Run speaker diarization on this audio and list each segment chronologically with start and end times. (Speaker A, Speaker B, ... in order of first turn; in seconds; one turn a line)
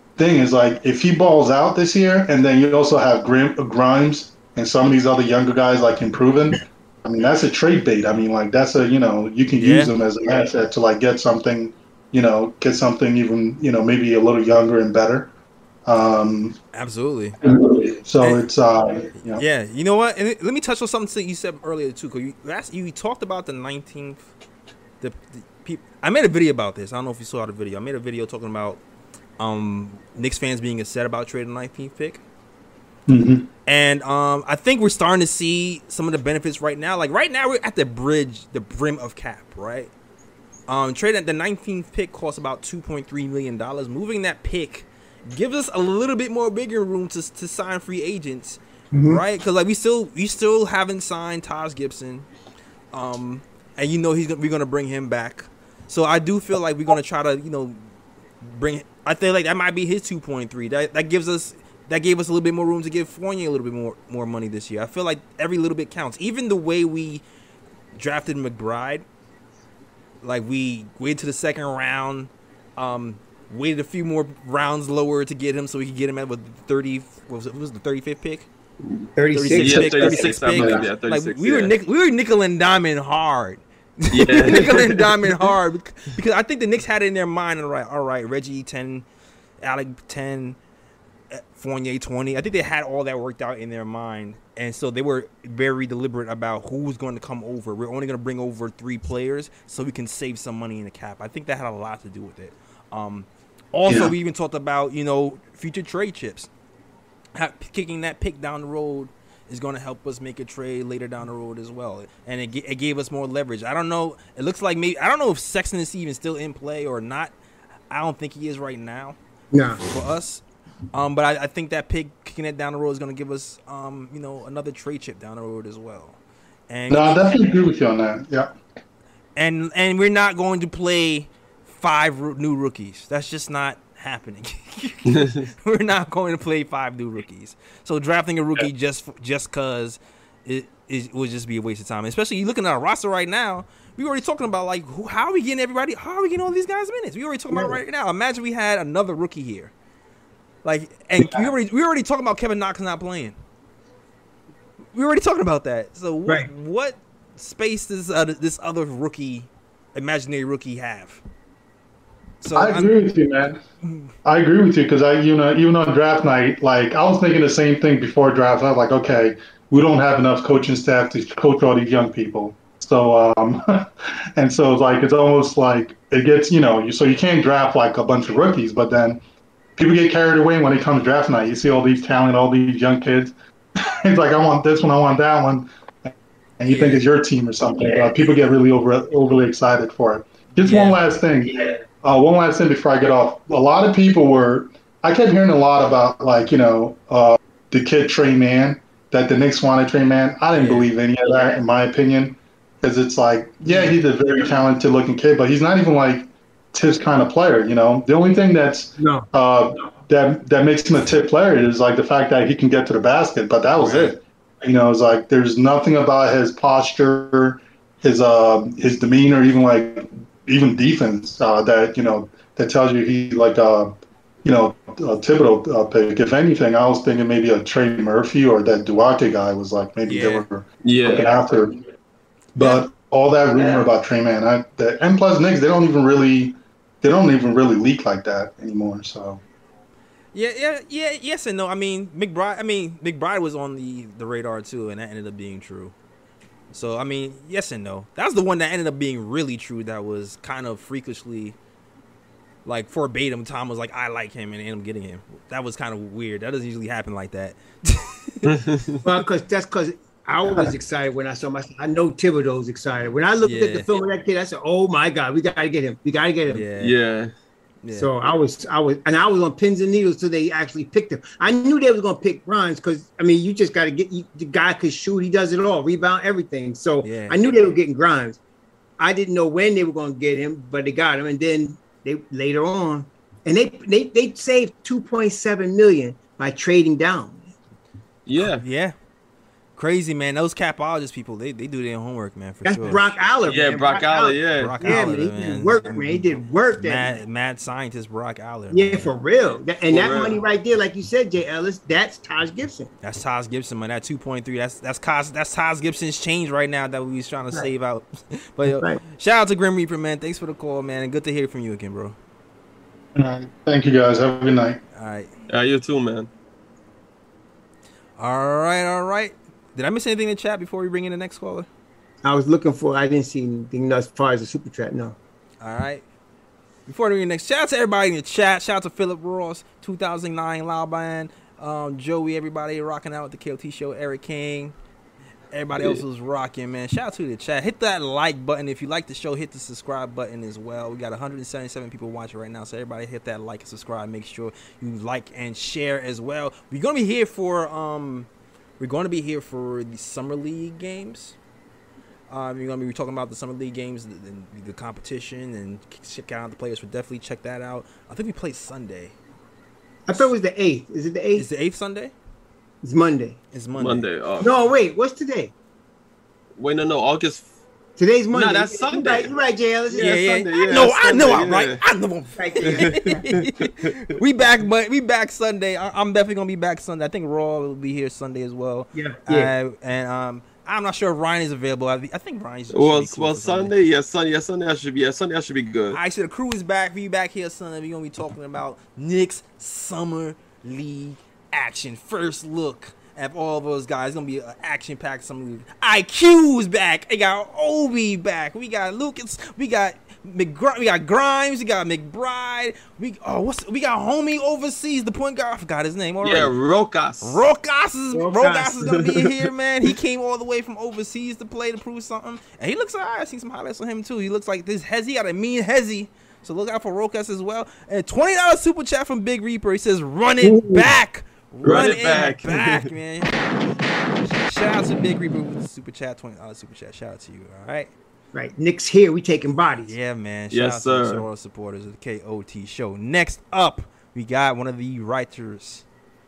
Speaker A: 0.2-15.3
Speaker B: 9.6-9.9
Speaker A: 15.9-16.6
Speaker B: 16.7-17.4
Speaker A: 17.4-19.4
Speaker B: 18.2-18.5
Speaker B: 19.2-24.2
Speaker B: 25.0-28.8
Speaker B: 29.4-32.2
Speaker A: 33.1-33.5
Speaker B: 33.7-39.9
Speaker B: 40.7-52.3
Speaker C: 48.9-49.2
Speaker B: 52.9-57.8
Speaker B: 58.4-67.2
Speaker B: 68.0-69.0
Speaker B: 70.2-78.5
Speaker D: 78.8-81.7
Speaker C: 79.2-80.9
Speaker B: 79.3-89.0
Speaker D: 84.1-85.5
Speaker B: 89.6-90.6
Speaker B: 91.3-106.5
Speaker A: 103.9-104.2
Speaker B: 107.3-117.3
Speaker B: 117.9-119.2
Speaker C: 119.5-119.8
Speaker B: 119.8-126.2
Speaker B: 126.7-127.4
Speaker A: 126.9-128.5
Speaker B: 129.4-149.7
Speaker D: 135.1-135.4
Speaker C: 147.5-147.8
Speaker B: 150.6-153.4
Speaker C: 151.2-151.5
Speaker B: 154.9-161.2
Speaker B: 162.4-163.0
Speaker A: 162.5-163.6
Speaker B: 163.8-164.1
Speaker A: 164.2-179.2
Speaker A: 179.8-185.7
Speaker A: 186.6-231.7
Speaker B: 186.7-187.1
Speaker B: 190.6-191.0
Speaker B: 200.5-200.9
Speaker C: 203.6-203.9
Speaker C: 209.0-209.3
Speaker B: 213.8-214.2
Speaker B: 230.1-230.4
Speaker D: 230.8-231.3
Speaker A: 232.6-239.4
Speaker B: 240.3-245.9
Speaker B: 246.7-251.6
Speaker B: 252.7-258.5
Speaker D: 258.5-258.9
Speaker C: 259.0-266.6
Speaker B: 263.4-263.9
Speaker B: 266.5-266.9
Speaker D: 266.8-267.3
Speaker B: 267.8-268.3
Speaker C: 267.9-278.4
Speaker B: 277.0-277.5
Speaker C: 279.0-287.5
Speaker D: 288.3-288.6
Speaker B: 288.3-288.9
Speaker B: 289.8-293.2
Speaker C: 292.6-297.2
Speaker D: 293.5-295.0
Speaker B: 294.5-299.1
Speaker C: 298.7-302.9
Speaker D: 299.9-300.4
Speaker B: 303.0-312.2
Speaker C: 308.7-309.0
Speaker A: 313.2-314.8
Speaker B: 314.9-315.3
Speaker D: 315.5-316.3
Speaker B: 318.2-321.7
Speaker C: 322.2-325.2
Speaker B: 325.6-326.1
Speaker B: 326.9-334.8
Speaker B: 335.5-348.3
Speaker B: 348.8-351.4
Speaker B: 352.3-359.1
Speaker C: 360.1-361.5
Speaker B: 361.4-362.1
Speaker C: 362.8-363.4
Speaker B: 363.5-364.1
Speaker D: 363.8-364.5
Speaker C: 364.4-365.5
Speaker D: 366.6-367.5
Speaker C: 368.0-370.1
Speaker D: 368.3-369.3
Speaker D: 369.9-371.8
Speaker B: 369.9-383.8
Speaker C: 372.4-373.2
Speaker D: 372.7-373.6
Speaker C: 378.9-379.5
Speaker D: 382.7-386.0
Speaker B: 385.9-406.5
Speaker D: 406.2-407.4
Speaker B: 407.2-423.3
Speaker C: 408.1-409.1
Speaker C: 420.4-420.9
Speaker D: 421.6-422.9
Speaker B: 424.2-427.9
Speaker C: 428.3-429.9
Speaker B: 429.8-435.9
Speaker D: 430.5-431.2